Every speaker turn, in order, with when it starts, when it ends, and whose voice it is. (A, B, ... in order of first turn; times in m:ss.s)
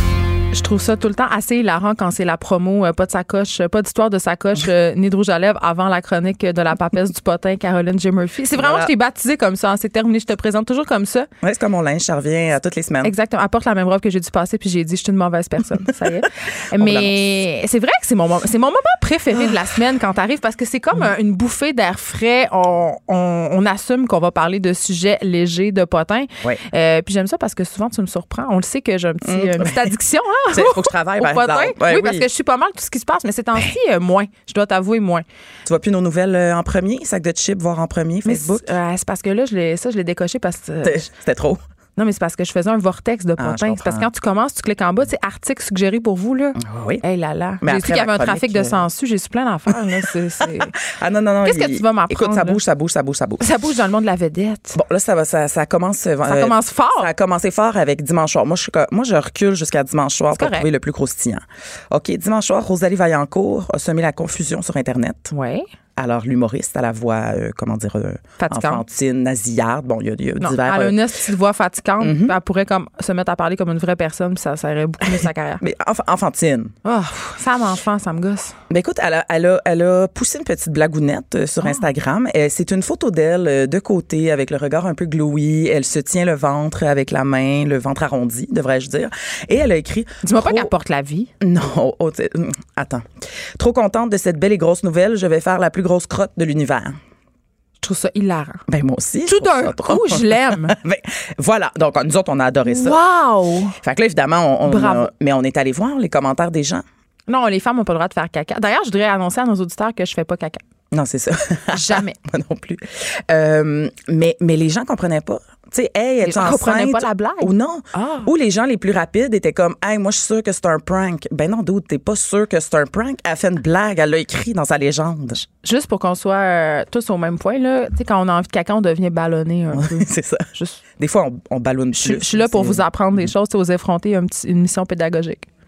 0:00.5-0:11.3 A
0:08.6-0:08.9 B
0:11.4-0:13.1 B
0:13.0-0:35.2 A
0:16.2-0:17.2 B
0:29.2-0:29.9 B
0:30.5-0:32.2 B
0:35.6-0:38.6 B
0:38.2-0:41.1 A
0:40.8-0:41.6 B
0:42.0-0:50.7 A
0:43.4-0:44.1 B
0:46.6-0:47.0 B
0:47.6-0:48.8 B
0:49.7-0:53.4 B
0:51.4-0:52.6 A
0:53.4-0:54.8 A
0:54.7-1:05.3 B
0:56.2-0:57.1 A
1:00.3-1:00.7 A
1:05.3-1:05.6 A
1:06.0-1:11.0 B
1:08.4-1:08.8 A
1:10.4-1:15.6 A
1:12.0-1:12.4 B
1:15.6-1:16.7 B
1:16.8-1:18.6 A
1:18.7-1:30.7 B
1:30.2-1:31.3 A
1:31.4-1:33.0 B
1:33.6-1:37.0 B
1:37.8-1:38.6 A
1:38.7-1:43.0 B
1:39.2-1:40.8 A
1:42.6-1:43.8 A
1:43.8-1:46.8 B
1:44.6-1:45.1 A
1:47.3-1:50.6 A
1:50.9-2:05.4 B
1:51.7-1:52.2 A
1:56.2-1:58.3 A
2:05.6-2:10.8 A
2:09.7-2:12.8 B
2:11.9-2:15.5 A